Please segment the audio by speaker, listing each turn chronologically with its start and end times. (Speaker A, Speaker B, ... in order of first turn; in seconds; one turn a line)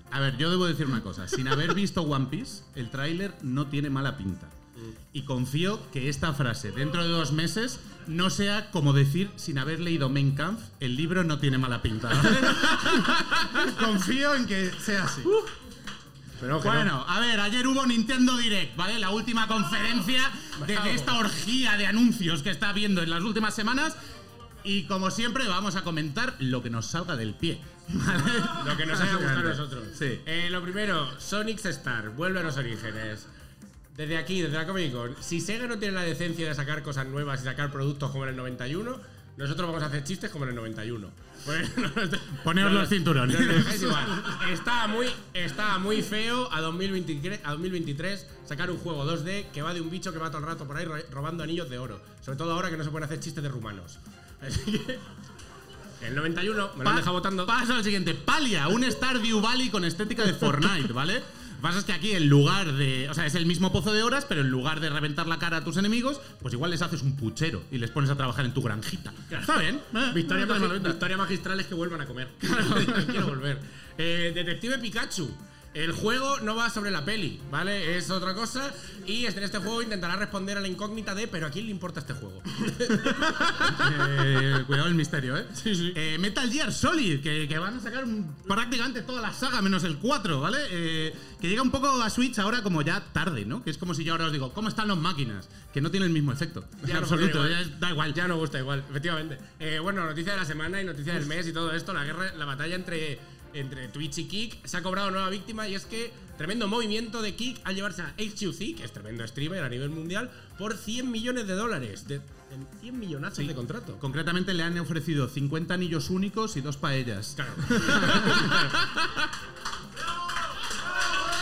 Speaker A: 0.1-4.5
Speaker A: 5.1-15.3
Speaker B: 16.4-16.9
Speaker A: 16.6-24.0
Speaker B: 20.6-21.1
Speaker A: 24.6-30.2
Speaker B: 28.6-33.3
Speaker B: 33.9-55.0
Speaker A: 42.4-44.3
Speaker B: 56.0-57.5
Speaker A: 56.8-71.0
Speaker B: 69.3-69.6
Speaker B: 70.1-83.2
Speaker A: 72.5-73.2
Speaker A: 83.6-98.2
Speaker B: 85.6-86.0
Speaker B: 96.8-114.0
Speaker A: 113.4-118.9
Speaker B: 117.4-118.7